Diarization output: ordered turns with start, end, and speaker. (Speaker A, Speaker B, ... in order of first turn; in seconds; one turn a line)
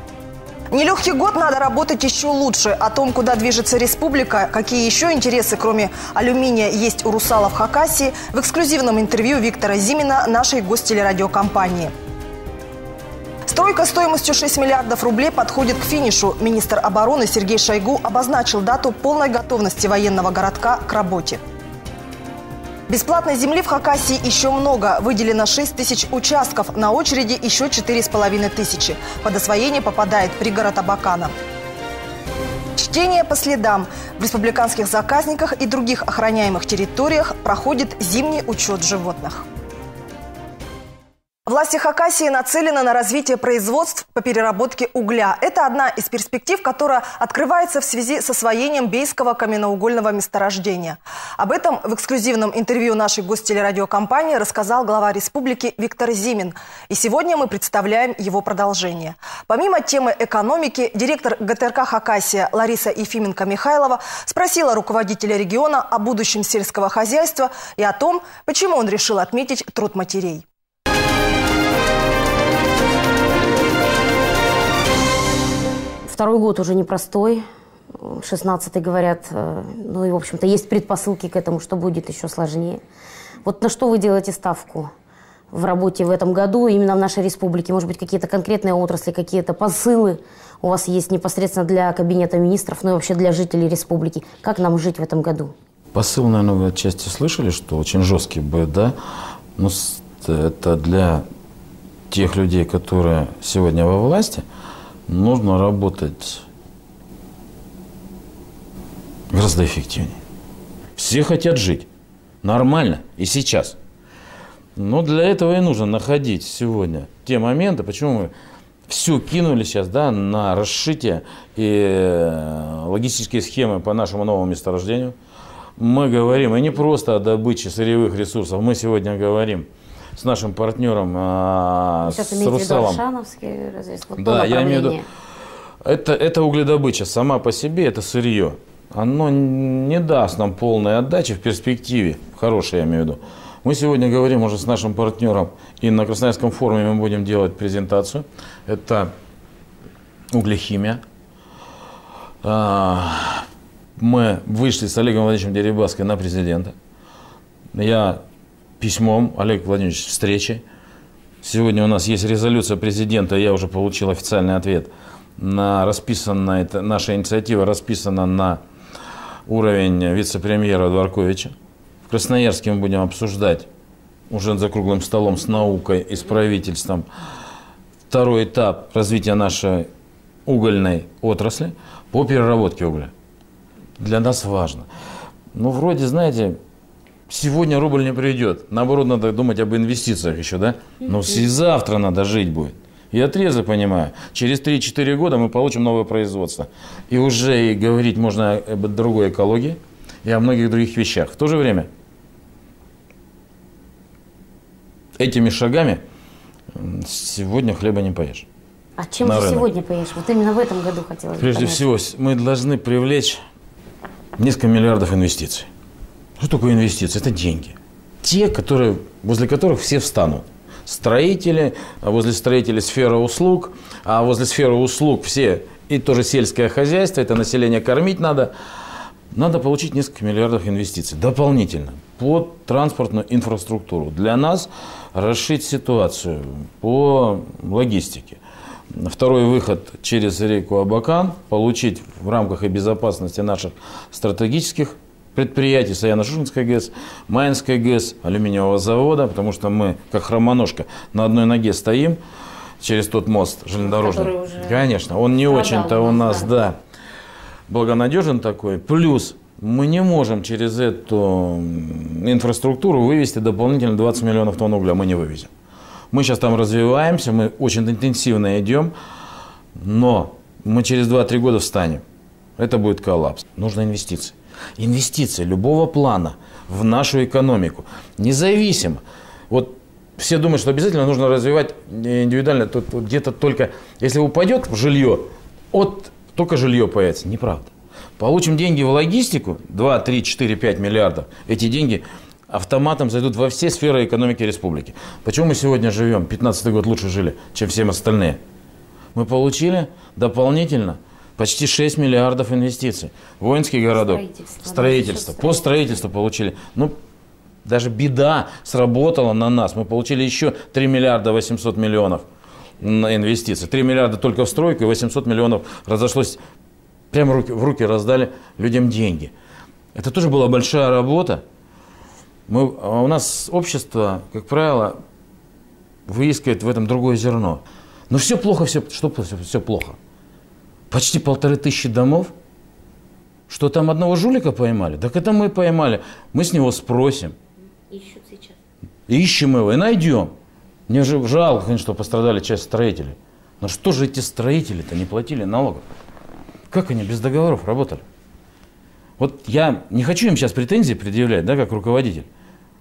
Speaker A: 0.7-11.9
Speaker A: 13.5-21.4
Speaker A: 22.9-31.4
Speaker A: 32.8-39.5
Speaker A: 41.5-70.4
Speaker B: 76.1-82.8
Speaker B: 83.4-84.9
Speaker B: 85.5-95.5
Speaker C: 95.9-99.0
Speaker C: 99.6-101.3
Speaker C: 102.1-104.4
Speaker C: 105.1-106.5
Speaker C: 109.3-110.2
Speaker C: 111.0-111.9
Speaker C: 112.4-113.8
Speaker C: 114.8-118.3
Speaker C: 118.9-125.2
Speaker C: 125.8-133.0
Speaker B: 132.1-135.1
Speaker C: 134.2-135.0
Speaker C: 135.8-149.1
Speaker C: 150.3-151.0
Speaker C: 152.4-156.8
Speaker C: 157.7-158.2
Speaker C: 158.8-160.6
Speaker C: 161.4-168.6
Speaker C: 169.5-171.6
Speaker C: 172.1-173.7
Speaker C: 174.3-177.1
Speaker C: 178.1-179.9
Speaker C: 180.5-183.1
Speaker C: 184.0-184.9
Speaker C: 185.5-186.6
Speaker C: 187.3-201.9
Speaker C: 205.2-206.0
Speaker C: 206.7-208.5
Speaker B: 209.0-211.8
Speaker C: 209.2-209.7
Speaker C: 211.4-213.4
Speaker C: 214.4-215.7
Speaker C: 216.4-228.5
Speaker C: 229.3-252.2
Speaker C: 252.8-256.8
Speaker B: 253.9-254.8
Speaker B: 255.5-256.5
Speaker C: 257.7-265.5
Speaker C: 266.1-268.9
Speaker C: 269.8-272.0
Speaker C: 272.6-298.4
Speaker C: 299.1-307.0
Speaker B: 303.9-305.6
Speaker C: 307.6-312.3
Speaker C: 312.8-316.4
Speaker C: 317.1-319.3
Speaker C: 319.9-321.4
Speaker C: 322.5-325.0
Speaker C: 326.1-330.0
Speaker C: 330.9-332.3
Speaker C: 333.5-337.4
Speaker B: 337.9-338.2
Speaker C: 339.1-340.3
Speaker C: 340.9-345.8
Speaker C: 346.7-348.0
Speaker C: 349.2-352.3